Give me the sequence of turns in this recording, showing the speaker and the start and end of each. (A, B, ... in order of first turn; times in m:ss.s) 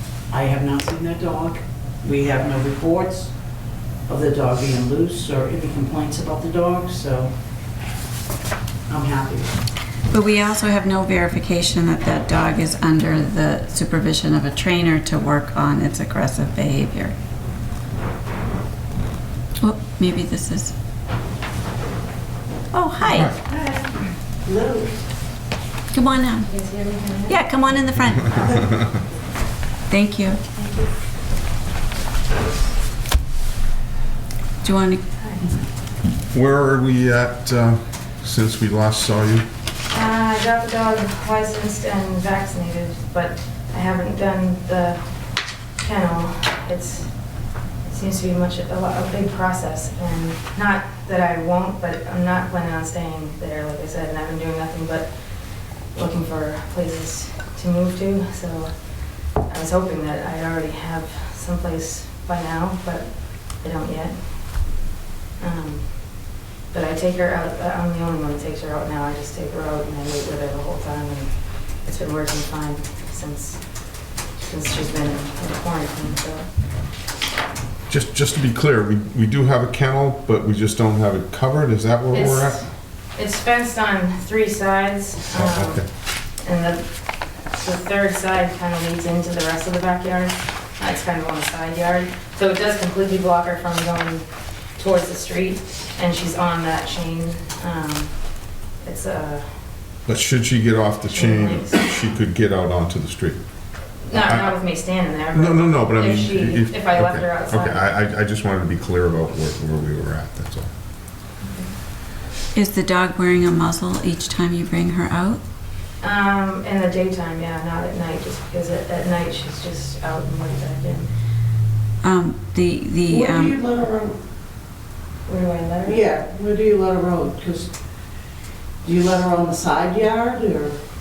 0:00.3-0:03.4 A
0:04.1-0:07.3 A
0:08.9-0:09.6 A
0:10.1-0:17.1 B
0:19.6-0:20.7 B
0:22.7-0:23.3 B
0:23.4-0:25.0 A
0:25.9-0:26.5 B
0:26.4-0:27.4 C
0:27.3-0:28.8 B
0:28.4-0:28.8 A
0:29.9-0:30.4 B
0:34.6-0:35.0 B
0:36.3-0:39.5 D
0:39.9-0:45.0 C
0:45.8-0:47.1 C
0:47.8-0:55.1 C
0:55.9-0:58.7 C
0:59.4-1:04.8 C
1:05.4-1:13.6 C
1:14.4-1:16.5 C
1:17.9-1:22.6 D
1:22.1-1:25.8 C
1:25.3-1:25.9 D
1:26.4-1:26.9 C
1:27.6-1:38.2 C
1:38.8-1:39.5 C
1:40.1-1:43.4 D
1:41.1-1:41.8 C
1:44.1-1:47.8 C
1:44.1-1:44.6 D
1:45.3-1:50.7 D
1:51.4-1:51.7 C
1:52.6-1:55.4 B
1:56.0-2:01.1 C
2:02.0-2:03.6 B
2:03.1-2:04.2 A
2:05.3-2:06.0 C
2:05.8-2:07.7 A
2:08.8-2:10.8 A